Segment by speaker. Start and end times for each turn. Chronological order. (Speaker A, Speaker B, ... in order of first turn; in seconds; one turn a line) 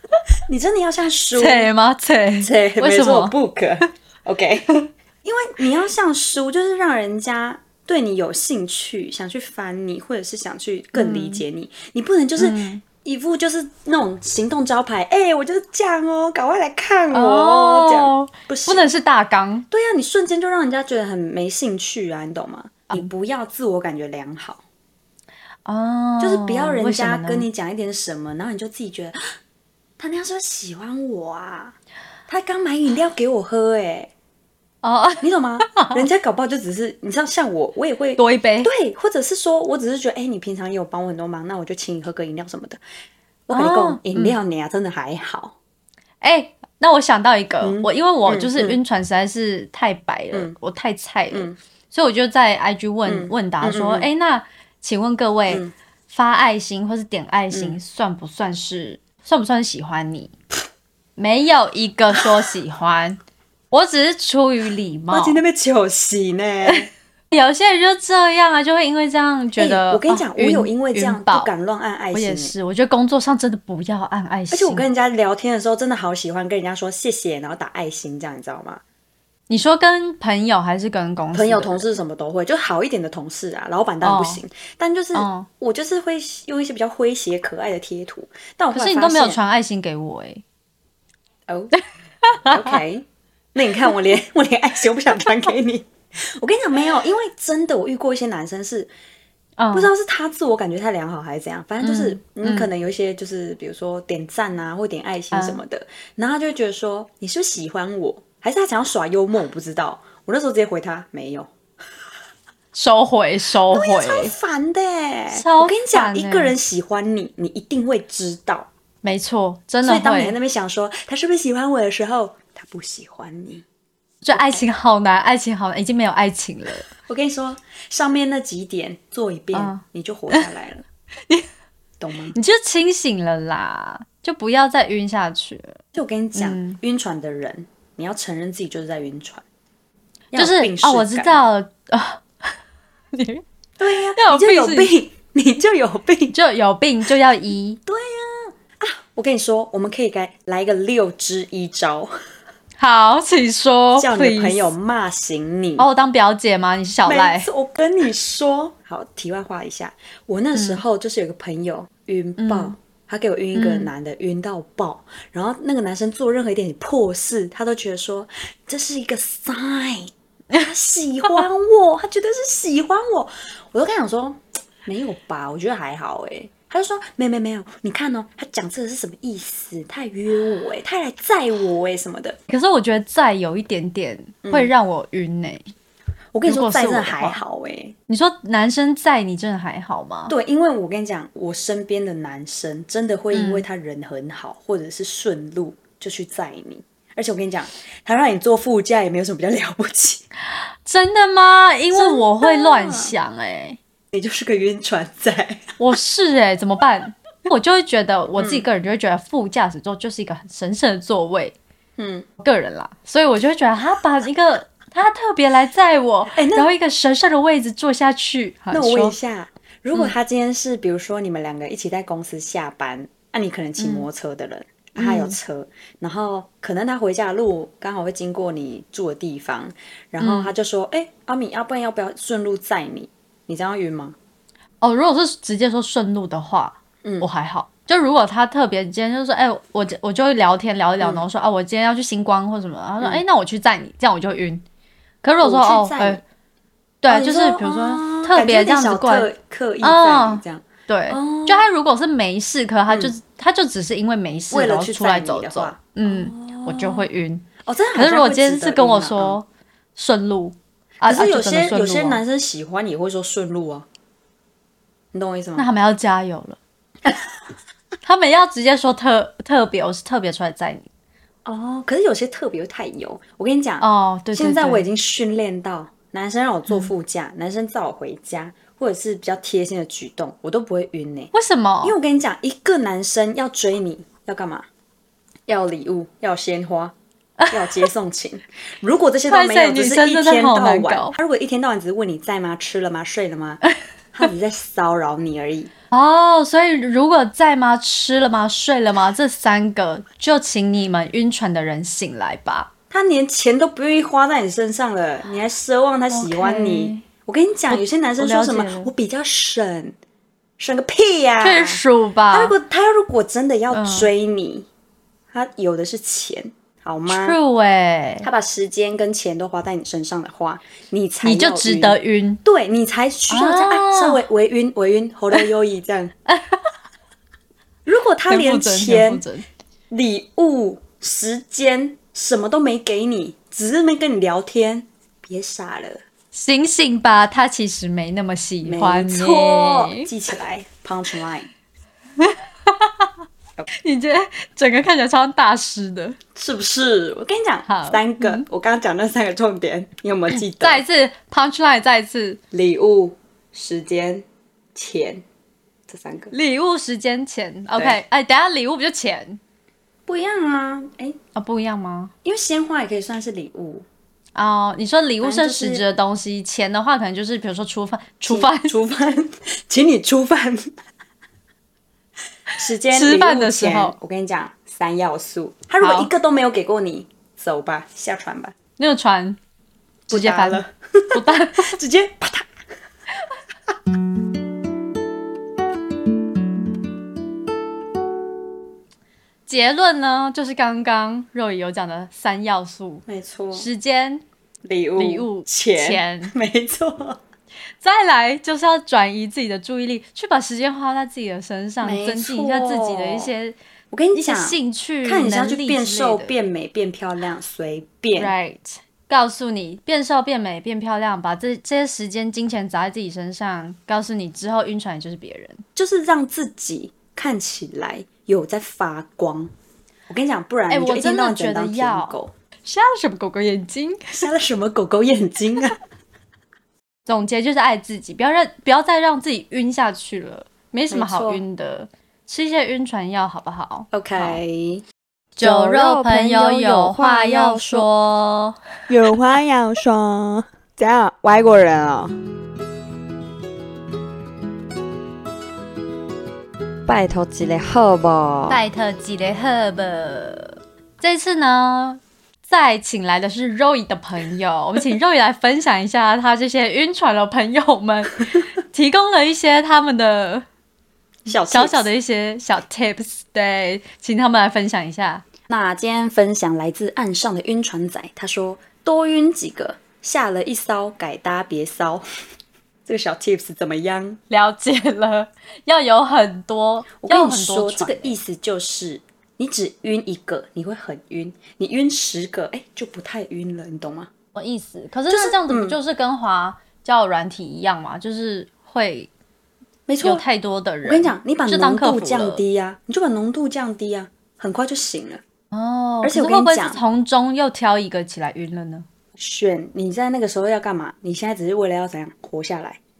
Speaker A: 0.5-1.7
Speaker B: 1.3-3.4
Speaker A: 2.4-18.9
Speaker B: 10.9-11.4
Speaker B: 12.4-12.8
Speaker B: 17.1-19.7
Speaker A: 19.7-24.6
Speaker B: 25.6-27.5
Speaker A: 26.2-29.2
Speaker A: 30.0-31.8
Speaker A: 32.3-34.1
Speaker B: 34.8-36.1
Speaker A: 35.2-42.8
Speaker B: 38.2-38.7
Speaker A: 43.5-45.5
Speaker B: 43.5-44.4
Speaker B: 46.2-60.3
Speaker A: 47.6-48.8
Speaker A: 53.1-54.1
Speaker A: 57.5-57.8
Speaker B: 61.2-63.2
Speaker B: 63.7-65.4
Speaker A: 65.1-66.9
Speaker B: 66.7-71.5
Speaker A: 69.6-72.5
Speaker B: 72.1-74.9
Speaker A: 74.5-78.8
Speaker B: 79.5-81.9
Speaker A: 81.3-89.4
Speaker B: 84.0-84.4
Speaker B: 85.1-85.5
Speaker B: 88.7-90.4
Speaker A: 91.5-91.7
Speaker B: 91.7-92.8
Speaker A: 92.5-98.9
Speaker B: 99.6-99.9
Speaker A: 99.7-111.5
Speaker B: 101.8-102.7
Speaker B: 105.3-105.6
Speaker B: 112.7-114.3
Speaker A: 113.7-118.7
Speaker B: 115.3-116.5
Speaker B: 119.0-120.4
Speaker A: 119.8-123.7
Speaker B: 124.2-126.9
Speaker A: 124.3-124.6
Speaker A: 127.1-130.9
Speaker B: 129.5-130.5
Speaker A: 132.0-132.3
Speaker B: 132.3-135.8
Speaker A: 135.9-139.4
Speaker B: 136.3-136.8
Speaker A: 140.3-141.4
Speaker B: 140.3-142.6
Speaker B: 143.1-143.4
Speaker A: 143.8-146.3
Speaker B: 144.2-144.9
Speaker B: 146.3-147.8
Speaker A: 147.9-152.1
Speaker B: 152.8-154.7
Speaker A: 154.0-155.9
Speaker B: 155.8-157.5
Speaker A: 157.1-182.4
Speaker B: 160.6-160.8
Speaker B: 162.4-162.8
Speaker B: 163.5-163.9
Speaker B: 182.5-185.7
Speaker A: 184.4-184.7
Speaker A: 186.3-187.9
Speaker B: 186.5-187.4
Speaker B: 188.1-190.3
Speaker A: 190.3-200.2
Speaker B: 193.3-193.7
Speaker B: 200.8-203.8
Speaker A: 201.9-203.1
Speaker A: 204.1-205.8
Speaker B: 205.8-211.6
Speaker A: 208.4-208.7
Speaker A: 212.0-212.3
Speaker B: 212.4-219.2
Speaker A: 216.3-216.7
Speaker A: 218.7-234.2
Speaker B: 223.8-224.1
Speaker B: 225.0-225.4
Speaker B: 230.2-230.5
Speaker B: 234.8-244.6
Speaker B: 245.2-246.2
Speaker A: 245.4-246.2
Speaker B: 247.0-249.3
Speaker A: 247.1-251.7
Speaker B: 249.8-262.2
Speaker A: 254.5-257.1
Speaker A: 257.6-259.4
Speaker A: 261.0-263.9
Speaker A: 265.1-265.7
Speaker B: 265.6-266.6
Speaker B: 268.0-270.9
Speaker A: 271.4-281.3
Speaker B: 273.8-274.9
Speaker B: 281.3-282.0
Speaker A: 281.8-284.7
Speaker A: 285.5-286.9
Speaker B: 287.4-287.9
Speaker A: 287.5-293.6
Speaker B: 289.3-291.2
Speaker A: 294.1-295.7
Speaker B: 295.9-302.7
Speaker A: 302.9-310.0
Speaker B: 306.1-307.1
Speaker B: 307.7-308.9
Speaker A: 310.6-311.8
Speaker B: 311.4-312.6
Speaker A: 312.3-314.7
Speaker B: 313.7-314.1
Speaker A: 315.3-317.4
Speaker B: 317.1-318.3
Speaker A: 318.2-326.1
Speaker B: 321.2-322.4
Speaker B: 323.3-324.2
Speaker B: 326.3-326.7
Speaker A: 327.9-329.2
Speaker B: 328.3-329.5
Speaker A: 329.9-336.0
Speaker B: 336.3-340.1
Speaker A: 338.6-341.5
Speaker B: 342.2-343.1
Speaker B: 343.7-346.2
Speaker A: 346.4-350.8
Speaker B: 347.7-348.5
Speaker B: 350.3-352.4
Speaker A: 352.5-355.2
Speaker A: 355.9-356.3
Speaker B: 356.3-359.4
Speaker A: 360.1-361.2
Speaker B: 361.4-362.1
Speaker A: 362.2-363.9
Speaker B: 364.4-368.8
Speaker A: 365.2-365.9
Speaker A: 368.3-370.8
Speaker A: 372.6-378.6
Speaker B: 372.9-373.9
Speaker B: 375.8-376.1
Speaker B: 378.8-379.4
Speaker B: 380.1-381.8
Speaker A: 380.1-382.5
Speaker B: 389.5-394.2
Speaker A: 393.1-393.7
Speaker A: 394.6-397.2
Speaker B: 395.0-396.3
Speaker B: 397.8-403.6
Speaker A: 401.8-403.3
Speaker A: 403.9-408.3
Speaker B: 404.1-406.4
Speaker B: 408.2-415.6
Speaker A: 415.8-419.5
Speaker A: 420.1-422.3
Speaker B: 420.7-424.3
Speaker A: 424.1-425.8
Speaker B: 427.1-434.4
Speaker A: 430.9-431.4
Speaker A: 433.9-434.8
Speaker B: 435.4-438.6
Speaker A: 435.4-437.9
Speaker A: 438.9-442.2
Speaker A: 446.9-448.6
Speaker B: 448.5-460.5
Speaker A: 461.3-461.9
Speaker B: 461.5-465.2
Speaker A: 465.5-472.1
Speaker A: 472.9-474.2
Speaker B: 474.3-478.2
Speaker A: 477.0-484.1
Speaker B: 484.4-489.1
Speaker A: 485.1-485.8
Speaker A: 489.9-490.2
Speaker B: 490.0-492.4
Speaker A: 490.8-495.2
Speaker B: 495.5-498.9
Speaker A: 496.0-496.8
Speaker A: 499.2-502.8